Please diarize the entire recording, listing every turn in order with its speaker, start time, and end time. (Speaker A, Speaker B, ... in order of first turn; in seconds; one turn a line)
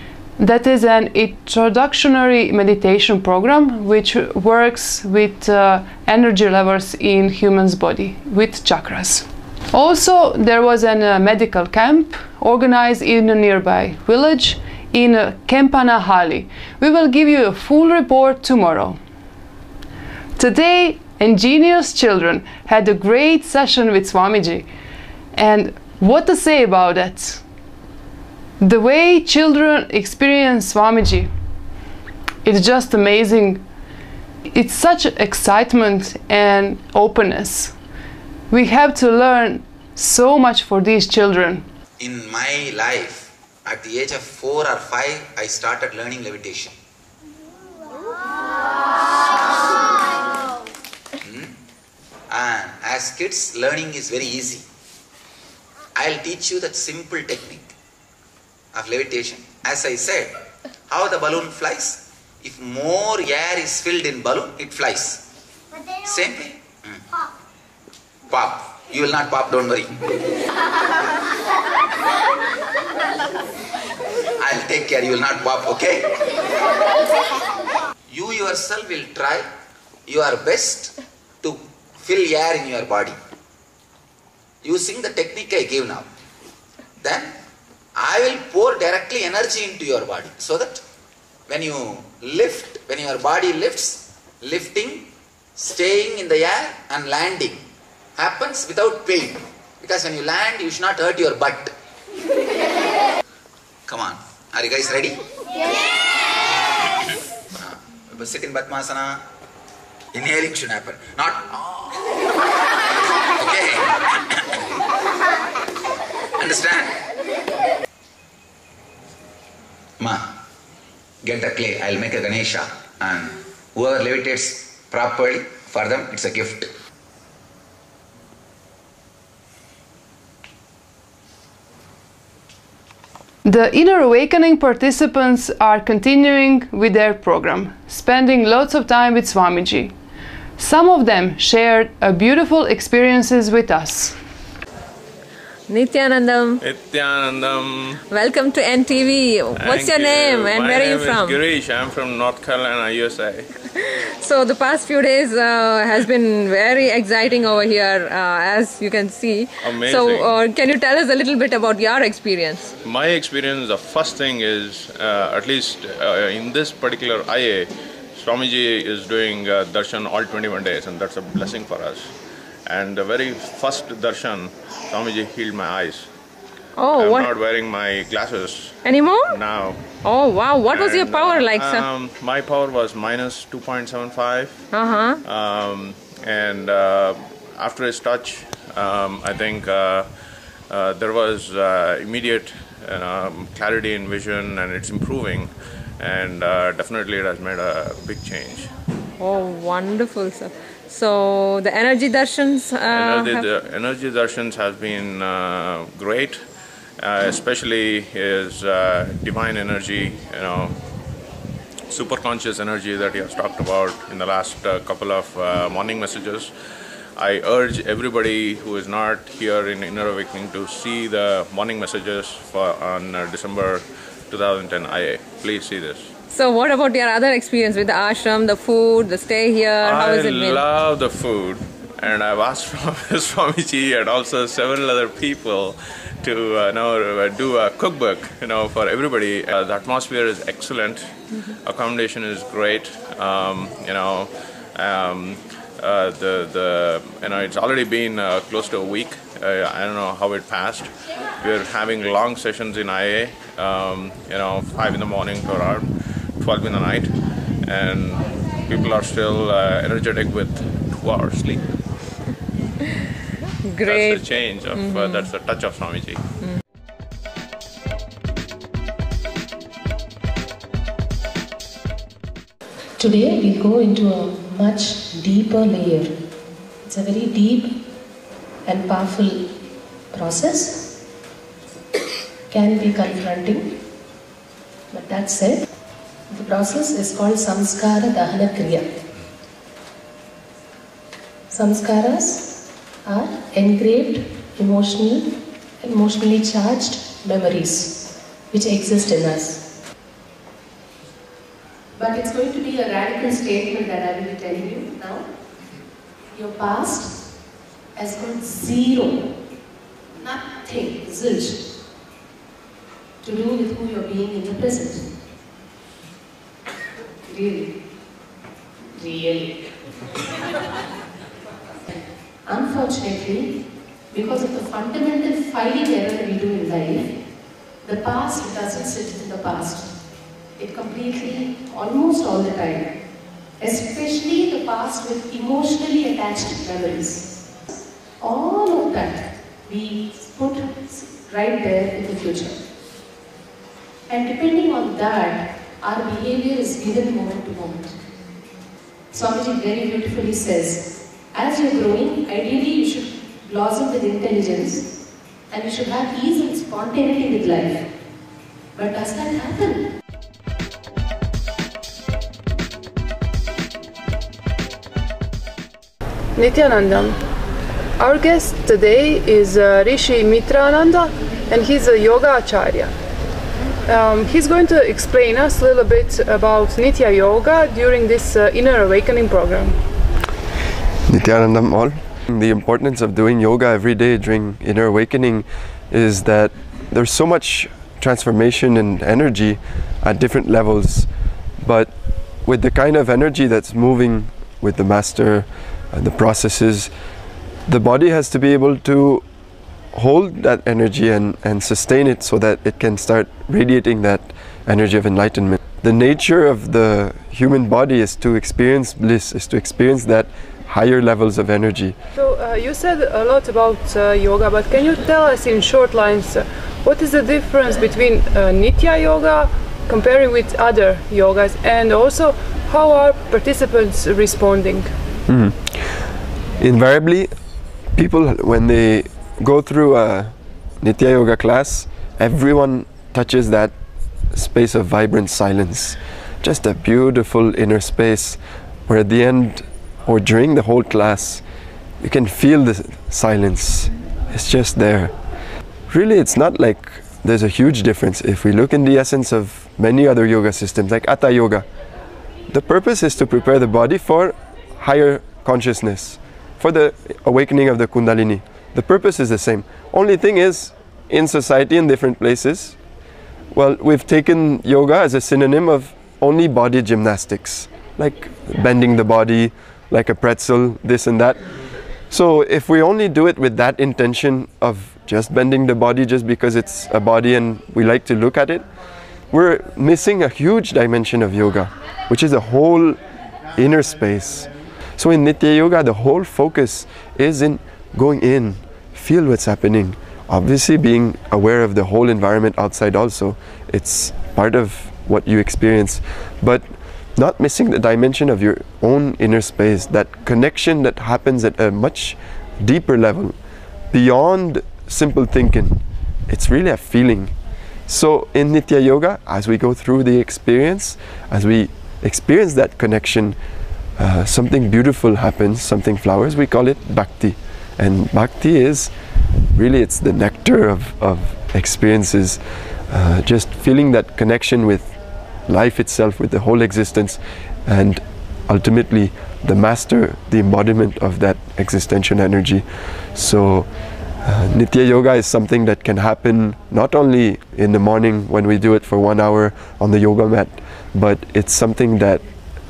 Speaker A: 0.4-19.0
Speaker A: 20.4-24.7
Speaker A: 25.3-27.4
Speaker A: 28.6-31.3
Speaker A: 32.5-33.6
Speaker A: 34.5-37.8
Speaker A: 38.5-41.7
Speaker B: 42.0-46.8
Speaker B: 51.2-51.5
Speaker B: 52.3-54.7
Speaker B: 56.0-57.7
Speaker B: 58.7-60.3
Speaker B: 60.9-65.2
Speaker B: 66.0-67.1
Speaker B: 68.3-69.9
Speaker B: 74.4-76.1
Speaker B: 78.1-79.5
Speaker B: 80.1-83.2
Speaker B: 84.6-86.1
Speaker B: 87.0-87.3
Speaker B: 88.0-90.8
Speaker B: 91.5-97.6
Speaker B: 98.2-101.7
Speaker B: 103.9-105.2
Speaker B: 107.5-109.2
Speaker B: 110.1-112.0
Speaker B: 113.4-114.4
Speaker B: 116.4-117.0
Speaker B: 121.2-126.7
Speaker A: 133.4-139.9
Speaker A: 140.6-144.2
Speaker C: 145.7-146.6
Speaker D: 146.6-148.0
Speaker C: 148.1-151.4
Speaker D: 149.6-153.5
Speaker C: 153.8-162.7
Speaker D: 159.6-160.4
Speaker D: 162.8-172.1
Speaker D: 172.7-176.1
Speaker C: 176.8-177.3
Speaker D: 176.9-179.9
Speaker C: 178.8-179.4
Speaker C: 180.0-181.9
Speaker D: 180.7-184.7
Speaker C: 184.7-185.2
Speaker D: 185.2-190.1
Speaker D: 190.7-198.7
Speaker C: 199.2-203.5
Speaker D: 202.9-206.4
Speaker D: 207.0-210.8
Speaker D: 211.9-216.5
Speaker D: 217.2-226.1
Speaker C: 226.3-230.6
Speaker D: 229.8-255.9
Speaker D: 256.4-257.1
Speaker D: 257.6-261.6
Speaker C: 263.6-265.3
Speaker D: 263.8-266.3
Speaker E: 273.0-276.1
Speaker E: 276.9-277.8
Speaker E: 278.7-279.4
Speaker E: 280.1-280.9
Speaker E: 282.5-283.7
Speaker E: 284.9-285.6
Speaker E: 286.3-288.8
Speaker E: 291.5-292.5
Speaker E: 293.1-298.0
Speaker E: 298.5-299.6
Speaker E: 302.0-305.2
Speaker E: 306.4-307.1
Speaker E: 308.0-309.2
Speaker E: 310.2-311.6
Speaker E: 313.2-315.1
Speaker E: 317.3-317.7
Speaker E: 319.0-319.4
Speaker E: 322.5-323.6
Speaker E: 324.1-327.1
Speaker E: 327.9-329.9
Speaker E: 330.6-332.9
Speaker E: 333.6-337.2
Speaker E: 338.2-342.5
Speaker E: 344.1-347.9
Speaker E: 349.1-354.9
Speaker E: 355.5-357.8
Speaker E: 358.8-359.8
Speaker A: 366.4-367.2
Speaker A: 368.0-372.9
Speaker A: 373.9-379.8
Speaker F: 381.1-391.1
Speaker F: 391.6-391.9
Speaker F: 392.4-396.9
Speaker F: 397.7-399.2
Speaker F: 399.9-411.9
Speaker A: 412.1-424.9
Speaker F: 425.3-425.9
Speaker F: 426.6-427.3
Speaker F: 427.9-433.7
Speaker F: 434.3-441.4
Speaker F: 442.0-445.1
Speaker F: 445.9-451.7
Speaker F: 452.5-462.8
Speaker F: 463.5-471.4
Speaker F: 472.1-478.6
Speaker F: 479.3-483.0
Speaker F: 483.6-503.4
Speaker F: 503.9-507.3
Speaker F: 507.9-513.4
Speaker F: 514.0-518.9
Speaker F: 519.5-524.9
Speaker F: 525.5-533.7
Speaker F: 534.2-542.2